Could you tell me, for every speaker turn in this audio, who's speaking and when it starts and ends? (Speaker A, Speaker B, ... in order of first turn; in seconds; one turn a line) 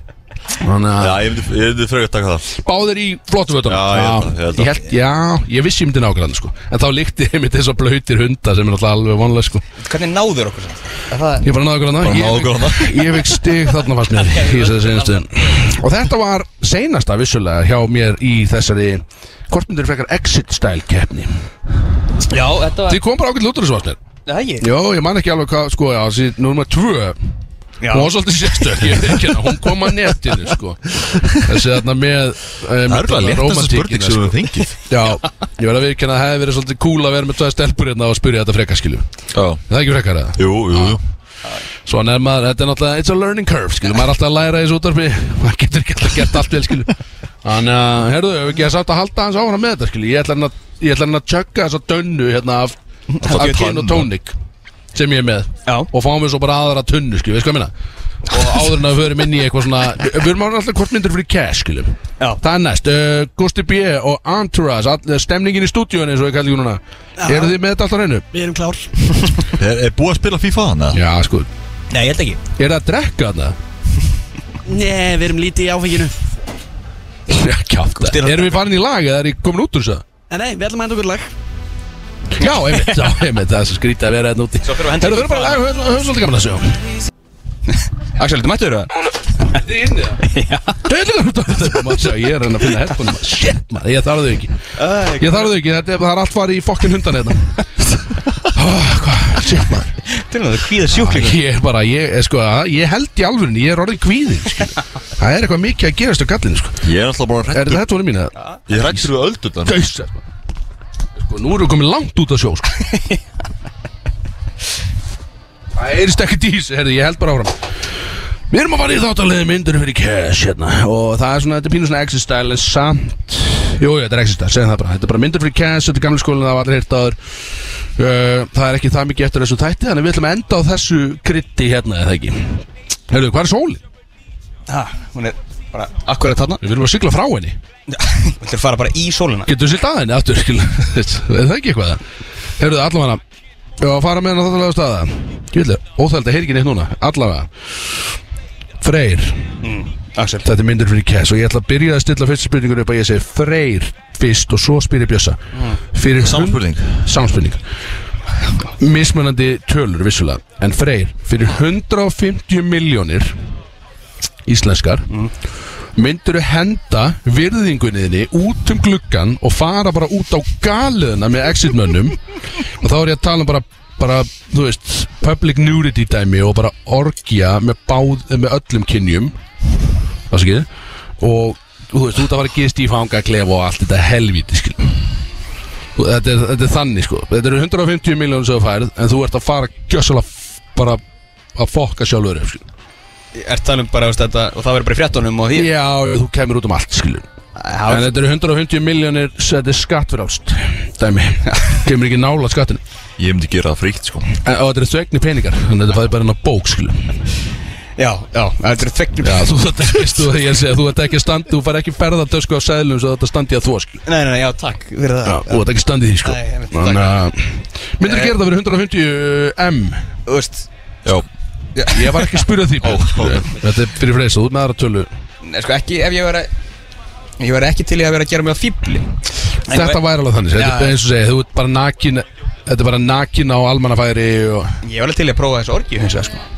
Speaker A: 0.6-1.3
Speaker B: 1.0-2.5
Speaker A: 2.5-9.6
Speaker B: 3.6-4.8
Speaker C: 9.8-11.5
Speaker A: 11.4-21.4
Speaker B: 12.0-13.3
Speaker C: 14.1-15.7
Speaker C: 22.2-23.0
Speaker A: 22.9-24.0
Speaker C: 24.3-24.7
Speaker A: 24.6-27.2
Speaker C: 27.8-28.1
Speaker A: 27.9-39.1
Speaker B: 32.9-34.8
Speaker B: 39.3-39.6
Speaker A: 39.7-41.0
Speaker B: 40.4-41.0
Speaker A: 41.9-54.3
Speaker C: 53.1-53.7
Speaker B: 53.2-54.1
Speaker A: 54.9-57.7
Speaker A: 58.3-68.2
Speaker D: 67.2-67.6
Speaker D: 68.3-69.2
Speaker B: 69.5-71.0
Speaker A: 70.9-71.5
Speaker C: 71.9-72.4
Speaker A: 72.6-73.6
Speaker D: 74.7-76.2
Speaker A: 77.3-80.1
Speaker C: 78.0-78.6
Speaker D: 80.3-81.3
Speaker A: 82.3-86.8
Speaker C: 82.4-83.0
Speaker C: 84.6-85.6
Speaker C: 88.2-89.7
Speaker A: 89.5-90.2
Speaker C: 90.2-90.8
Speaker A: 90.8-94.6
Speaker C: 94.8-95.6
Speaker A: 95.1-97.6
Speaker A: 98.5-100.0
Speaker C: 100.1-101.4
Speaker A: 101.0-106.9
Speaker B: 106.8-107.8
Speaker A: 107.5-109.1
Speaker B: 108.7-109.8
Speaker A: 109.6-110.2
Speaker A: 111.2-112.8
Speaker C: 112.9-113.2
Speaker A: 115.8-117.6
Speaker A: 118.5-127.2
Speaker A: 128.0-133.8
Speaker C: 134.7-136.6
Speaker A: 136.6-137.6
Speaker C: 137.9-139.5
Speaker A: 139.5-142.0
Speaker A: 142.6-143.2
Speaker A: 143.8-147.5
Speaker A: 148.8-149.6
Speaker C: 149.6-150.5
Speaker A: 150.4-157.6
Speaker B: 156.2-157.0
Speaker A: 158.7-163.4
Speaker A: 164.5-165.1
Speaker A: 166.0-172.2
Speaker A: 172.8-179.4
Speaker A: 180.3-180.7
Speaker A: 181.2-185.1
Speaker A: 186.0-191.0
Speaker A: 191.6-192.6
Speaker C: 193.3-195.7
Speaker A: 195.5-197.2
Speaker C: 197.6-198.2
Speaker A: 197.9-202.8
Speaker B: 203.2-204.3
Speaker A: 204.4-207.2
Speaker C: 208.0-210.0
Speaker A: 209.2-214.0
Speaker C: 214.1-215.7
Speaker A: 215.2-220.0
Speaker C: 216.2-217.2
Speaker C: 218.0-218.3
Speaker C: 220.3-220.7
Speaker C: 221.8-222.5
Speaker A: 221.9-225.1
Speaker B: 222.8-223.4
Speaker C: 225.4-226.5
Speaker C: 227.4-229.1
Speaker C: 229.7-230.0
Speaker A: 229.7-234.8
Speaker C: 230.5-231.0
Speaker C: 234.8-236.4